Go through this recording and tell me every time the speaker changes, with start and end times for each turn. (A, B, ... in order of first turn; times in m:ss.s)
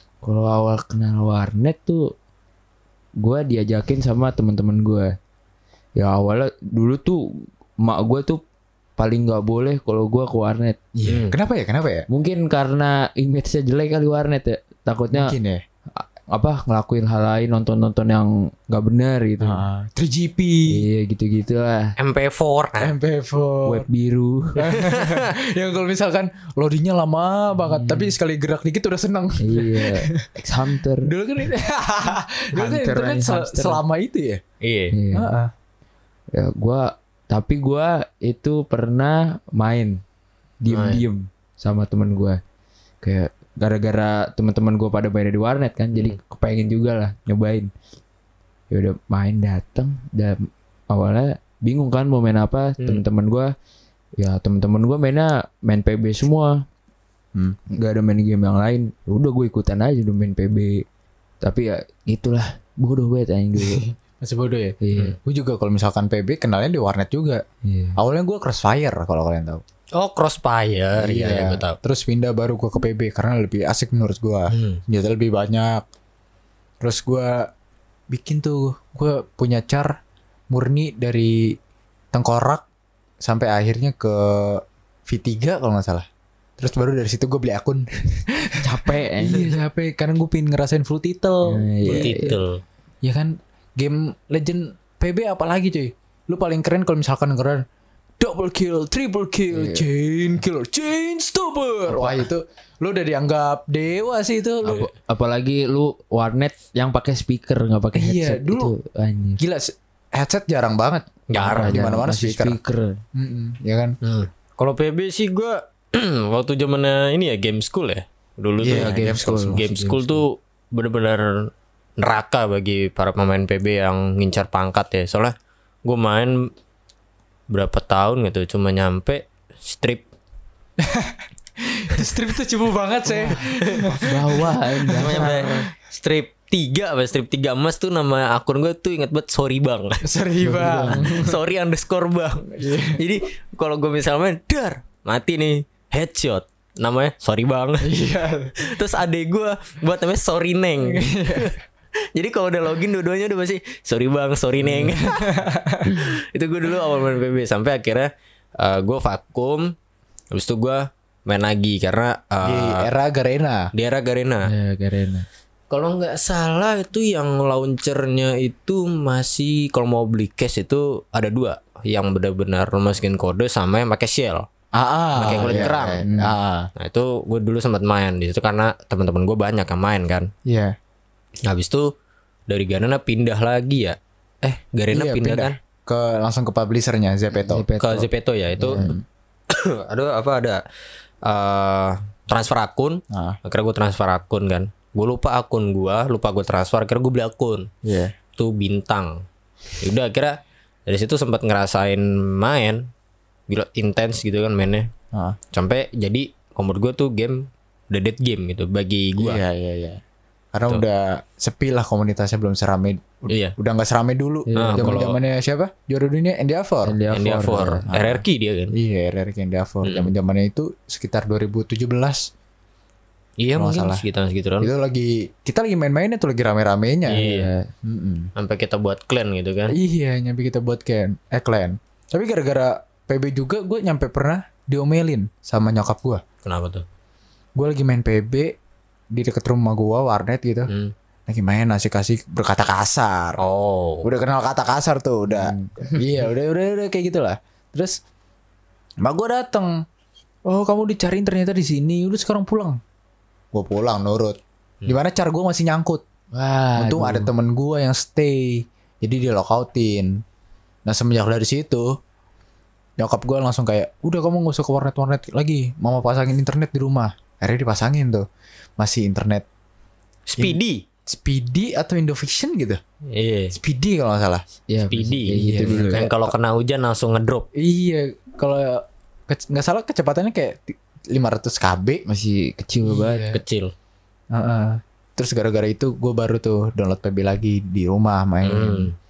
0:00.2-0:02.1 A
0:03.2-0:05.1 A
0:06.0-0:08.4 A
0:09.0-0:10.8 A
0:10.9-0:12.0 B
0:11.1-0:11.3 C
0:12.1-0:15.4 A
0:15.1-0:15.6 B
0:16.0-0:19.6 A
0:19.4-0:20.8 B
0:20.7-0:21.9 A
0:22.0-0:22.9 C
0:22.8-0:23.8 B
0:23.6-0:24.7 A
0:24.6-0:30.2 B
0:24.7-0:25.3 C
0:27.6-0:28.1 A
0:29.4-0:31.1 A
0:31.0-0:34.4 B
0:32.6-0:33.8 A
0:34.6-0:34.9 C
0:34.9-0:35.3 A
0:35.1-0:35.5 B
0:36.3-0:40.0 A
0:40.6-0:42.4 A
0:40.7-0:41.0 C
0:43.0-0:47.7 A
0:48.7-0:53.5 A
0:54.2-0:56.6 A
0:57.7-1:00.8 A
1:01.4-1:03.8 A
1:03.6-1:07.4 B
1:04.8-1:05.2 A
1:07.6-1:08.0 A
1:08.0-1:09.6 B
1:09.9-1:11.8 C
1:11.0-1:15.8 B
1:14.5-1:14.8 C
1:16.8-1:17.5 B
1:18.1-1:20.0 B
1:20.5-1:21.6 B
1:22.1-1:22.6 B
1:23.2-1:26.0 B
1:26.6-1:32.2 B
1:28.6-1:29.5 A
1:31.4-1:32.3 A
1:31.8-1:32.6 C
1:33.0-1:37.6 B
1:38.2-1:44.9 B
1:39.5-1:39.8 A
1:41.9-1:42.2 A
1:44.6-1:49.4 A
1:47.9-1:48.7 B
1:49.4-1:52.6 B
1:51.3-1:51.8 C
1:51.4-1:53.0 A
1:53.1-1:54.0 B
1:54.0-2:05.3 C
1:58.6-1:59.9 B
1:58.6-2:00.2 A
2:05.8-2:06.5 C
2:07.5-2:10.0 C
2:10.8-2:15.6 B
2:13.1-2:15.6 A
2:13.5-2:13.9 C
2:15.0-2:20.0 C
2:20.0-2:21.4 B
2:20.4-2:21.1 A
2:20.9-2:28.0 C
2:22.5-2:23.0 B
2:27.8-2:28.7 B
2:28.6-2:31.6 C
2:30.8-2:31.6 B
2:32.1-2:35.4 C
2:34.6-2:36.1 B
2:35.9-2:39.7 C
2:40.3-2:42.9 C
2:42.4-2:43.7 B
2:43.7-2:44.5 C
2:44.5-2:45.2 A
2:44.9-2:45.2 B
2:45.7-2:54.4 C
2:54.7-2:56.7 B
2:55.2-2:56.1 C
2:55.4-2:56.3 A
2:56.8-3:00.3 C
3:00.4-3:00.7 B
3:01.4-3:01.9 C
3:02.5-3:05.6 C
3:04.9-3:07.6 B
3:07.3-3:08.9 A
3:07.8-3:08.9 C
3:08.6-3:09.0 B
3:09.5-3:10.6 C
3:11.2-3:17.7 C
3:13.1-3:13.4 B
3:17.8-3:18.1 B
3:18.4-3:19.2 C
3:19.8-3:22.9 C
3:23.5-3:24.9 C
3:25.1-3:25.4 B
3:25.5-3:29.4 C
3:29.2-3:30.0 B
3:30.5-3:37.0 B
3:34.5-3:35.0 A
3:34.6-3:35.2 C
3:36.8-3:37.8 A
3:37.1-3:38.7 C
3:37.9-3:42.3 B
3:39.8-3:40.1 C
3:43.4-3:44.7 C
3:43.5-3:44.0 B
3:44.6-3:47.2 B
3:47.1-3:47.5 C
3:47.1-3:47.7 A
3:47.8-3:48.3 B
3:48.4-3:49.8 C
3:49.7-3:56.2 B
3:56.4-3:56.8 C
3:57.6-3:58.5 B
3:59.1-4:00.7 B
4:01.3-4:03.4 B
4:03.4-4:04.1 C
4:04.0-4:08.0 B
4:05.3-4:06.0 A
4:09.0-4:09.8 B
4:10.4-4:12.8 B
4:13.5-4:16.0 B
4:16.3-4:17.3 A
4:16.8-4:20.2 B
4:20.9-4:21.9 B
4:23.0-4:28.2 B
4:28.8-4:29.4 B
4:30.3-4:30.8 C
4:30.4-4:32.8 B
4:33.1-4:33.5 C
4:33.5-4:34.4 B
4:34.7-4:36.0 A
4:34.8-4:37.5 C
4:35.3-4:36.3 B
4:37.6-4:42.0 B
4:42.1-4:43.3 A
4:42.8-4:43.4 B
4:43.3-4:43.7 C
4:44.3-4:48.9 B
4:48.4-4:48.9 C